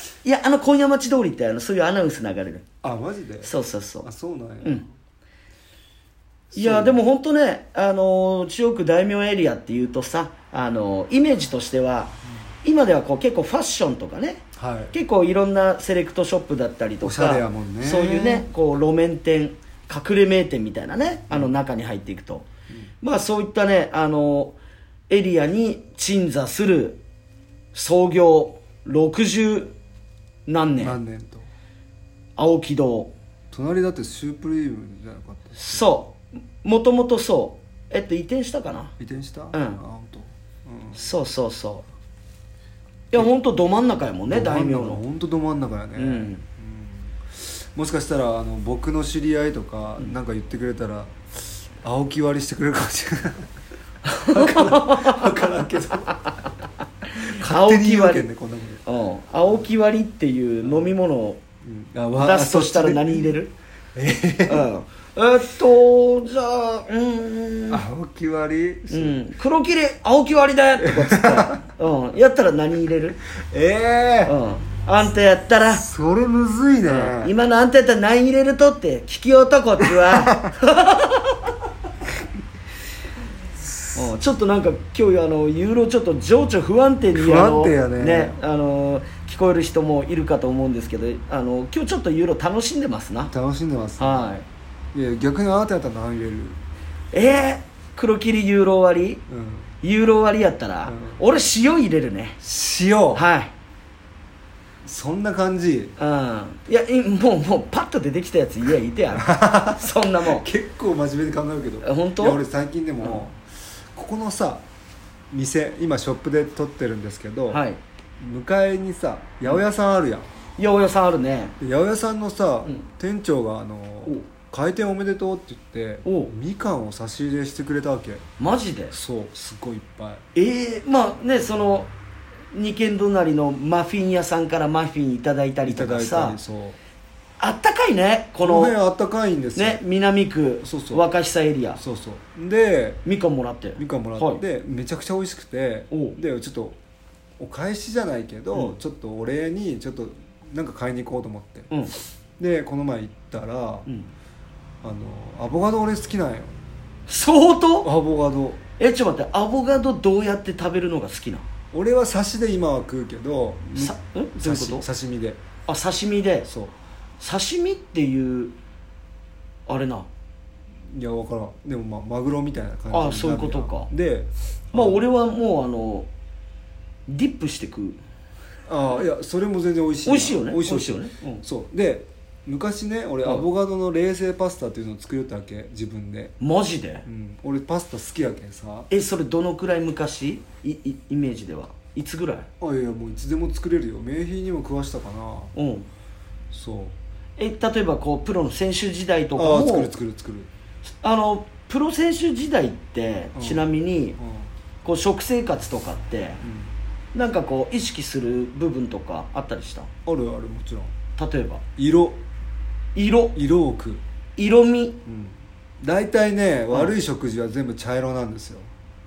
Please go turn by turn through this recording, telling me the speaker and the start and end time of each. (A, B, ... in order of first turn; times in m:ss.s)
0:00.2-0:02.6 A
0:02.8-0:03.5 B
0:03.4-0:04.1 A
0:04.0-0:04.8 B
0:06.5-0:07.0 B
0:06.5-0:22.5 A
0:14.5-0:14.9 B
0:17.0-0:18.4 B
0:23.0-0:24.6 A
0:25.1-0:27.0 A
0:27.7-0:29.7 A
0:30.5-0:31.0 A
0:30.8-0:31.5 B
0:32.4-0:33.1 A
0:33.5-0:35.9 B
0:35.5-0:38.9 A
0:39.0-0:41.1 B
0:39.5-0:39.8 A
0:40.9-0:41.9 A
0:43.1-0:45.0 A
0:44.3-0:53.5 B
0:46.0-0:46.4 A
0:54.0-0:55.4 A
0:54.2-0:56.2 B
0:57.1-0:58.2 A
0:57.1-0:58.8 B
0:58.8-1:01.4 A
1:00.6-1:00.9 B
1:01.6-1:03.3 B
1:02.2-1:03.5 A
1:03.9-1:04.7 B
1:04.4-1:07.8 A
1:07.7-1:09.2 B
1:08.9-1:13.2 A
1:10.8-1:11.6 B
1:13.3-1:14.4 B
1:14.2-1:15.8 A
1:15.7-1:17.3 B
1:16.8-1:21.5 A
1:19.8-1:20.6 B
1:23.7-1:24.0 B
1:23.9-1:33.3 A
1:27.1-1:28.4 B
1:33.3-1:34.4 B
1:34.0-1:34.4 A
1:34.9-1:36.6 B
1:37.1-1:39.2 A
1:39.3-1:39.7 B
1:39.8-1:42.4 A
1:40.8-1:41.2 B
1:42.4-1:43.2 B
1:43.1-1:43.5 A
1:44.8-1:46.0 B
1:46.0-1:50.5 A
1:49.1-1:54.6 B
1:51.8-1:52.4 A
1:55.3-1:57.6 B
1:57.5-1:57.8 A
1:58.2-2:00.3 B
2:00.6-2:01.6 A
2:01.6-2:08.2 B
2:06.0-2:06.3 A
2:08.4-2:08.9 A
2:08.9-2:10.2 B
2:10.3-2:11.9 A
2:12.5-2:16.4 A
2:15.6-2:16.8 B
2:17.4-2:18.7 A
2:18.4-2:19.8 B
2:19.6-2:21.8 A
2:20.6-2:21.0 B
2:21.8-2:23.0 B
2:23.0-2:24.4 A
2:23.8-2:26.8 B
2:25.9-2:26.2 A
2:27.4-2:31.7 B
2:32.4-2:33.9 B
2:34.8-2:36.6 B
2:37.1-2:37.9 A
2:37.8-2:38.6 B
2:38.8-2:41.4 A
2:41.7-2:45.4 B
2:43.7-2:44.8 A
2:45.6-2:46.5 A
2:46.4-2:46.7 B
2:47.2-2:48.5 A
2:49.7-2:50.1 A
2:50.9-2:55.0 B
2:52.9-2:53.9 A
2:54.7-2:56.1 A
2:57.1-2:58.0 A
2:58.7-3:06.4 B
3:00.0-3:01.4 A
3:06.4-3:07.0 A
3:07.0-3:08.9 B
3:08.9-3:12.5 A
3:12.6-3:15.5 B
3:15.5-3:15.9 A
3:16.5-3:17.0 B
3:17.4-3:19.9 A
3:19.4-3:20.5 B
3:21.0-3:24.2 A
3:23.3-3:24.5 B
3:24.8-3:26.4 A
3:26.4-3:26.7 B
3:27.1-3:29.9 A
3:30.0-3:30.9 B
3:31.2-3:31.6 A
3:31.8-3:32.2 B
3:32.9-3:33.4 A
3:33.3-3:34.0 B
3:34.4-3:35.0 A
3:35.0-3:38.7 B